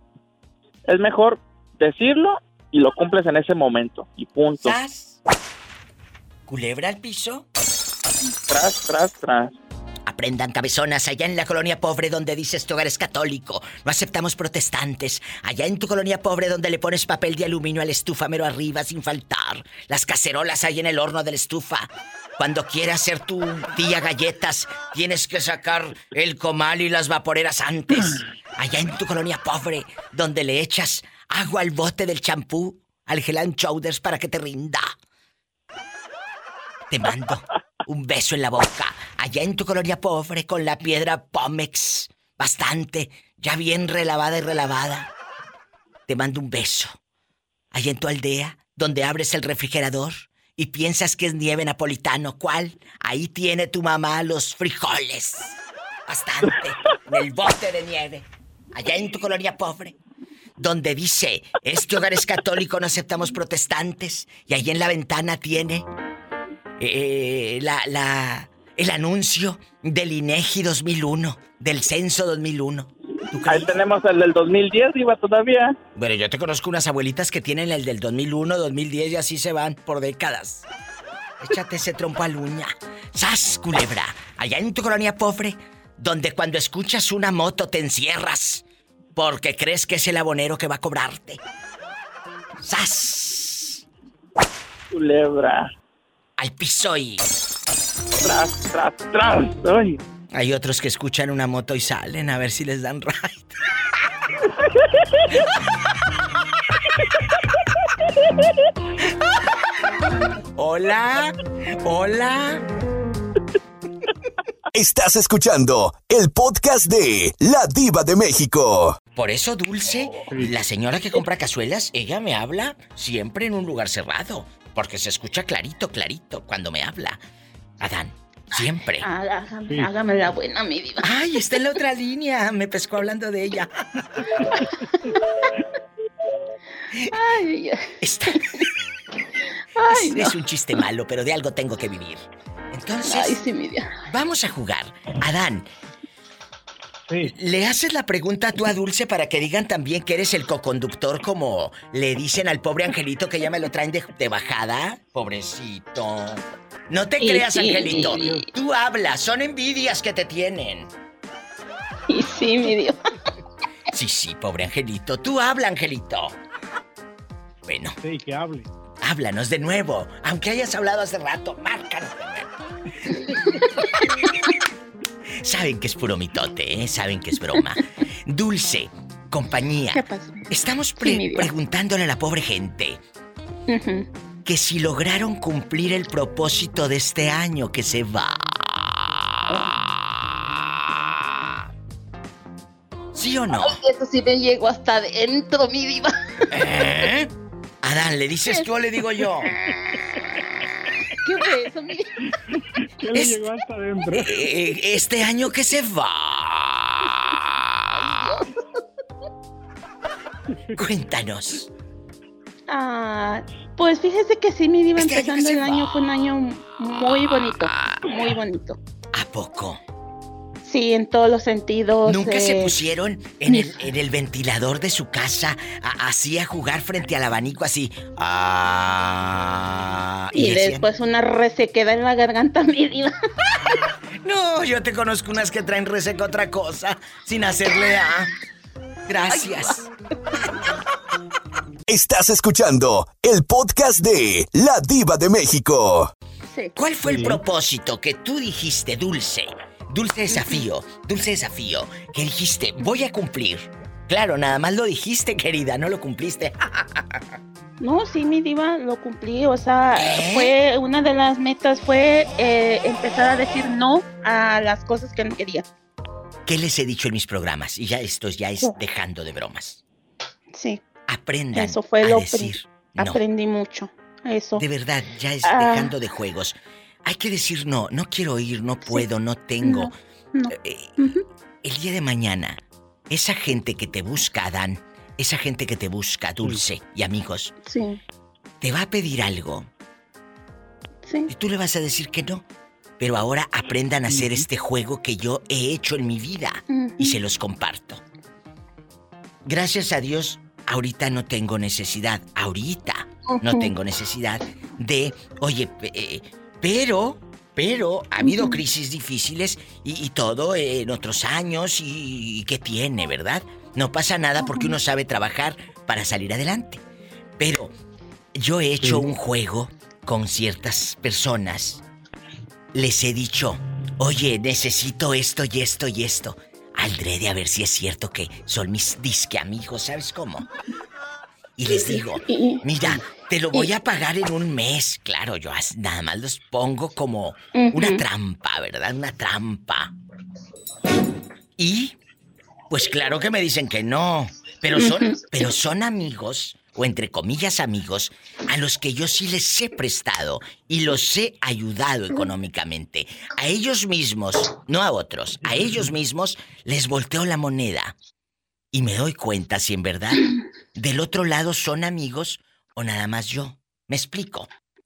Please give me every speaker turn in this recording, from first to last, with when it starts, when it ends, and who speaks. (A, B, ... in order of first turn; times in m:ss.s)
0:00.9-0:04.8 A
0:04.6-0:05.2 B
0:06.5-0:07.4 B
0:08.2-0:09.5 A
0:10.1-0:34.9 B
0:36.9-0:45.1 B
0:46.1-0:47.0 B
0:47.7-1:00.0 B
1:00.6-1:05.8 B
1:06.8-1:13.8 B
1:13.4-1:15.8 A
1:16.0-1:20.6 B
1:21.4-1:28.6 B
1:29.1-1:31.4 B
1:32.6-1:33.8 B
1:34.9-1:35.7 A
1:36.4-1:37.2 B
1:38.2-1:40.0 A
1:40.3-1:43.5 B
1:50.6-1:52.6 B
1:54.7-1:59.0 C
1:59.2-2:07.2 B
2:00.3-2:00.5 D
2:07.8-2:09.0 B
2:09.0-2:11.0 E
2:11.0-2:13.7 B
2:17.1-2:17.8 E
2:18.0-2:18.4 B
2:19.8-2:20.3 E
2:19.9-2:23.4 B
2:23.0-2:23.9 E
2:24.1-2:25.7 B
2:27.1-2:27.3 D
2:27.3-2:40.9 B
2:37.2-2:38.5 E
2:37.9-2:38.4 D
2:42.1-2:43.0 E
2:43.9-2:46.3 B
2:47.6-2:47.9 B
2:48.0-2:48.7 D
2:49.0-2:52.5 B
2:53.2-2:53.6 E
2:55.4-3:03.0 B
2:59.9-3:01.5 E
3:03.7-3:04.1 E
3:04.4-3:08.8 B
3:13.1-3:13.8 B
3:13.6-3:16.1 E
3:16.5-3:17.3 B
3:17.8-3:19.5 B
3:21.2-3:22.1 E
3:23.0-3:24.4 D
3:23.1-3:23.4 B
3:24.1-3:26.8 B
3:27.9-3:28.4 E
3:30.8-3:31.7 B
3:32.7-3:38.8 E
3:35.0-3:36.0 B
3:37.7-3:38.0 B
3:39.1-3:39.8 B
3:40.6-3:42.8 E
3:42.0-3:50.9 B
3:43.4-3:43.8 E
3:50.3-3:53.1 E
3:54.2-3:58.3 B
3:59.1-3:59.9 B
3:59.3-3:59.9 E
4:01.9-4:06.1 C
4:06.8-4:17.0 B
4:07.0-4:07.4 D
4:10.3-4:10.6 E
4:17.8-4:25.6 E
4:19.9-4:20.5 B
4:26.4-4:29.8 B
4:30.5-4:30.8 E
4:31.1-4:33.2 B
4:31.5-4:34.6 E
4:34.6-4:39.9 B
4:35.4-4:35.9 E
4:39.6-4:41.2 E
4:40.5-4:41.1 B
4:41.6-4:47.5 B
4:47.6-4:48.0 E
4:48.6-4:49.7 B
4:51.0-4:51.3 E
4:51.3-4:52.4 B
4:53.0-4:58.0 B
4:54.1-4:54.4 D
4:56.7-4:57.2 E
4:59.4-5:16.8 B
5:03.3-5:03.7 E
5:08.2-5:08.6 E
5:14.4-5:14.7 E
5:17.4-5:17.7 B
5:18.4-5:21.8 B
5:18.8-5:19.0 D
5:22.7-5:30.4 B
5:31.6-5:39.9 B
5:31.7-5:32.6 E
5:37.5-5:38.0 E
5:41.6-5:42.0 B
5:42.7-5:57.9 B
5:44.7-5:45.4 E
5:55.4-5:55.8 D
5:58.7-6:04.5 B